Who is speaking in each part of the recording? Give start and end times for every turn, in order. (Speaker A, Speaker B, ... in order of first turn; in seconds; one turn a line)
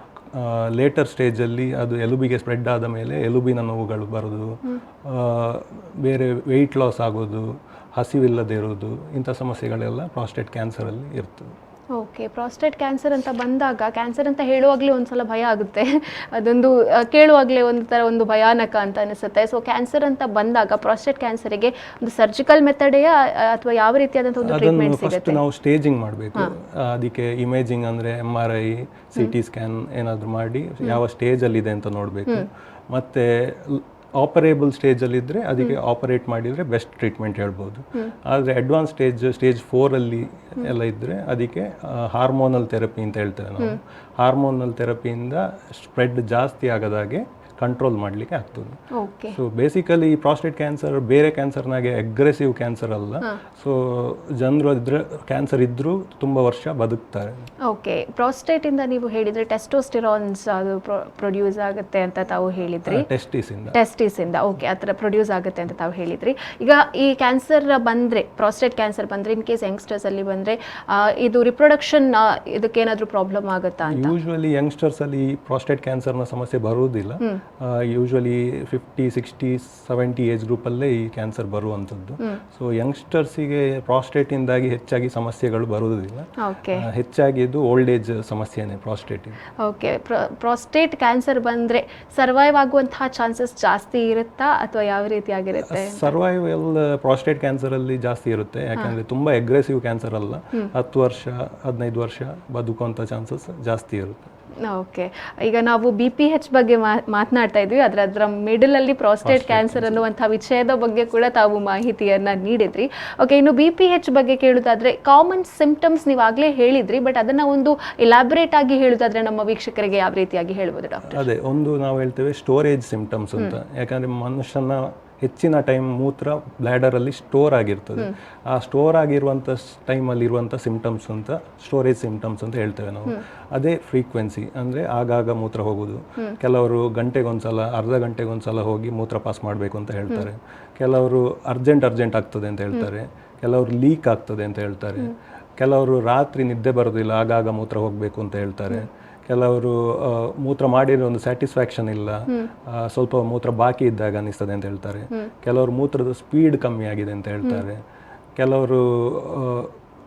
Speaker A: 0.3-11.5
Speaker B: 11.9-25.4
Speaker A: 24.4-48.8
Speaker B: 48.9-49.4
Speaker A: 49.3-57.4
Speaker B: 57.6-63.1
Speaker A: 62.9-63.8
Speaker B: 63.7-74.1
Speaker A: 73.9-89.4
Speaker B: 86.4-86.9
Speaker B: 89.6-96.1
Speaker A: 95.7-104.3
Speaker B: 104.6-121.2
Speaker A: 109.2-110.0
Speaker A: 121.1-157.8
Speaker A: 158.3-159.7